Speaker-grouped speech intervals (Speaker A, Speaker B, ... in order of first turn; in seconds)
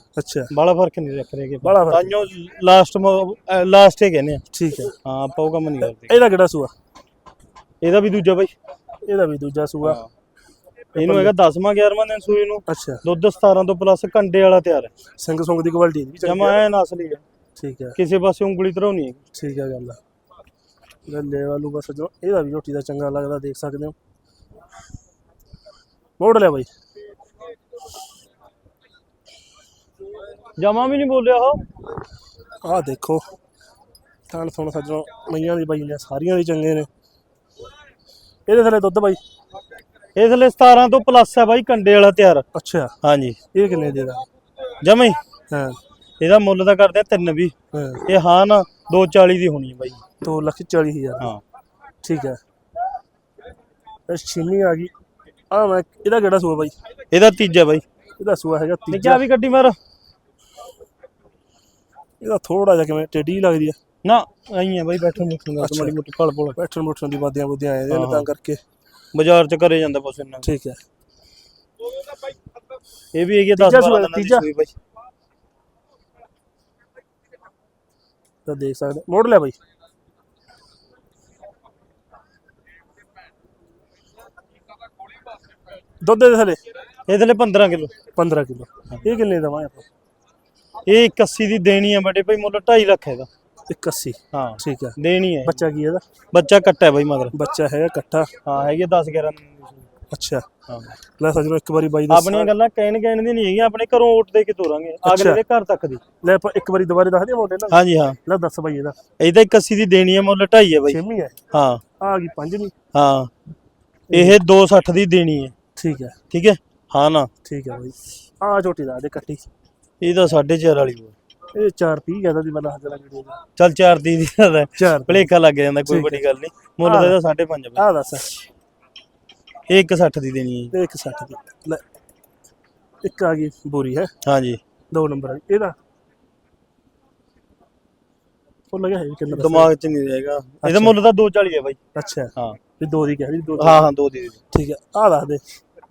Speaker A: 0.2-0.5, 1.6-2.2, 4.5-4.9, 5.8-6.7, 9.1-10.0, 10.9-11.3, 12.7-13.0, 15.2-16.6, 17.6-18.0, 19.3-20.0, 21.1-23.9, 26.2-26.7, 32.6-33.2, 34.3-36.9, 38.5-39.2, 42.5-42.9, 43.5-44.2, 45.5-45.8, 47.7-48.1, 50.2-51.3, 52.0-52.4, 54.1-54.9, 55.5-56.8, 58.2-59.2, 62.2-63.8, 65.6-66.0, 66.5-68.6, 70.4-70.8, 73.6-74.5, 78.5-79.6, 86.0-86.6, 88.2-89.9, 93.7-96.0, 97.3-98.3, 100.1-100.5, 101.2-102.5, 105.0-105.4, 106.2-109.0, 110.9-111.4, 112.0-112.7, 114.1-114.4, 115.8-116.2, 117.4-119.5, 121.5-123.4, 124.8-125.3, 125.9-126.2, 126.8-127.2, 127.8-128.3, 130.7-131.8, 133.0-134.1, 134.9-135.8, 138.7-139.7, 140.6-140.9, 141.9-143.9, 144.5-145.4
Speaker B: 0.5-4.4, 5.0-6.2, 7.8-8.5, 9.8-10.1, 11.0-14.9, 16.2-17.2, 18.0-19.2, 30.6-31.6, 40.2-42.5, 43.0-43.4, 44.8-45.2, 46.2-47.5, 48.1-50.0, 57.1-57.8, 58.9-59.8, 64.0-66.6, 67.9-68.3, 69.1-70.5, 73.1-74.7, 87.1-87.9, 90.9-93.3, 94.3-95.6, 96.3-97.3, 98.4-99.9, 100.7-100.9, 102.1-106.0, 107.7-108.2, 109.2-111.0, 111.5-111.8, 112.9-113.3, 114.1-115.5, 116.3-117.3, 120.0-121.1, 123.6-127.8, 129.7-130.8, 134.2-134.6, 139.3-141.8, 143.6-144.4